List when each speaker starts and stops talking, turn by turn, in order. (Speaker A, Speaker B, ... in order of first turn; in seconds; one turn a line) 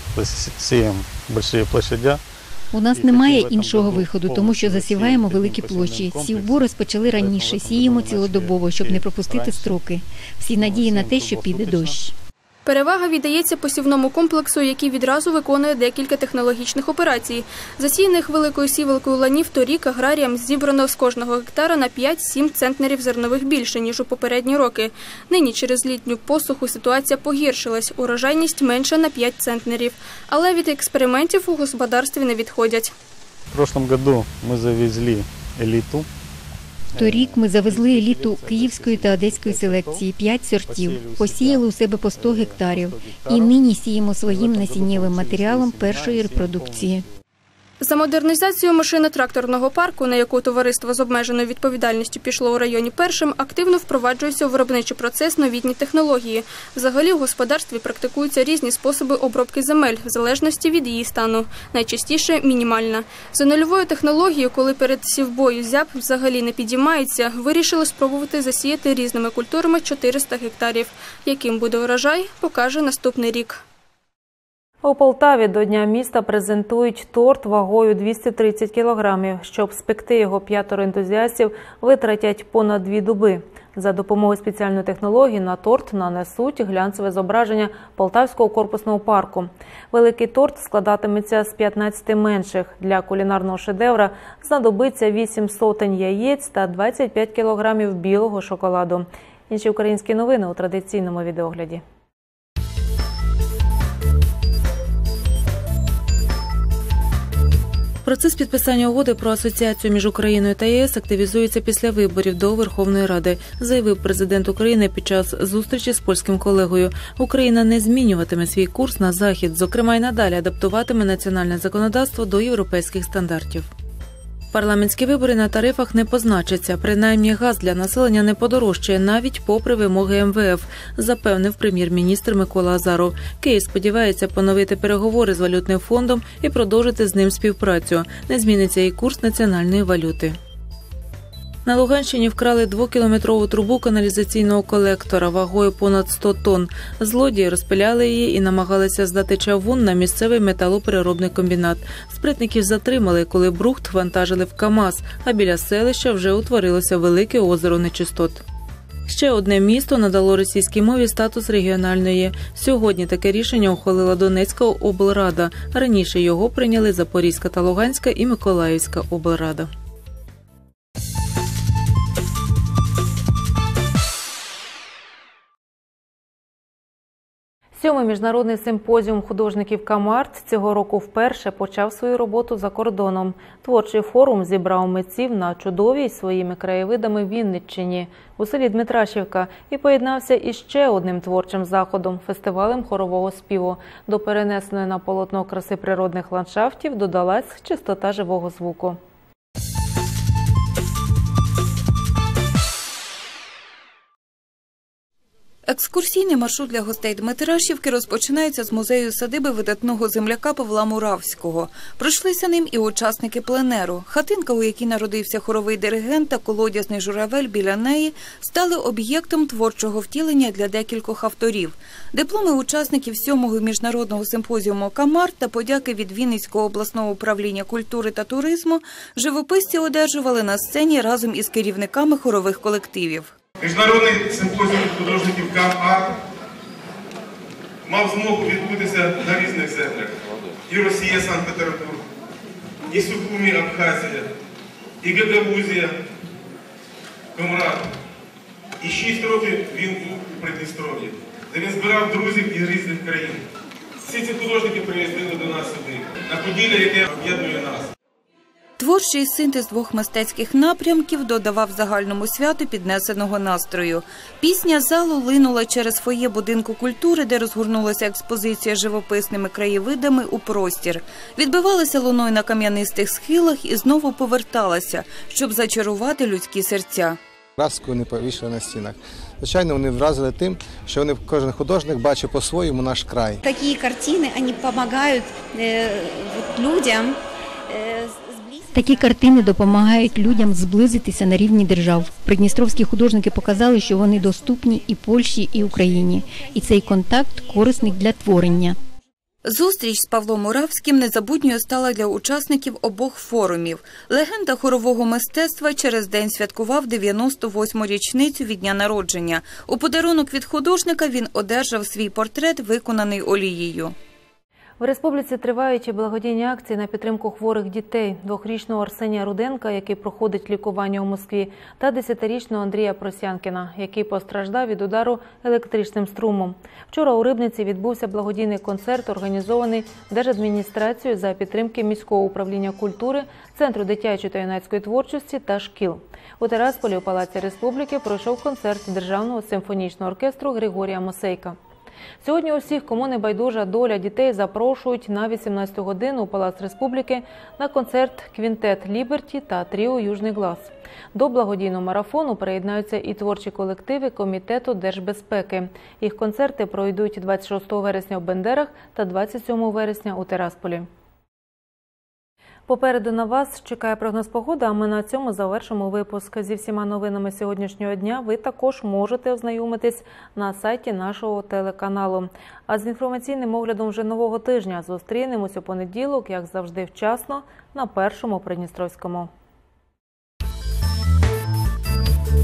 Speaker A: 0.1-2.2
Speaker B: 2.7-12.1
Speaker A: 2.9-9.9
Speaker A: 10.6-12.0
Speaker C: 12.7-32.9
Speaker A: 33.5-36.1
Speaker A: 36.9-47.1
Speaker B: 37.0-47.1
Speaker C: 47.8-73.6
Speaker D: 74.8-101.8
Speaker D: 108.0-123.7
Speaker D: 124.5-140.4
Speaker D: 141.7-158.4
Speaker D: 159.1-169.7
Speaker D: 177.8-199.0
Speaker E: 205.7-233.3
Speaker F: 233.6-236.2
Speaker F: 237.9-240.1
Speaker F: 240.7-242.0
Speaker F: 242.9-244.3
Speaker F: 245.0-246.0
Speaker F: 247.4-247.9
Speaker F: 248.8-253.4
Speaker F: 254.0-257.9
Speaker E: 258.8-277.2
Speaker G: 277.6-283.4
Speaker H: 283.4-287.1
Speaker H: 287.7-288.8
Speaker B: 288.7-298.8
Speaker E: 299.4-313.9
Speaker D: 314.8-341.6
Speaker D: 342.2-360.9
Speaker D: 362.7-379.3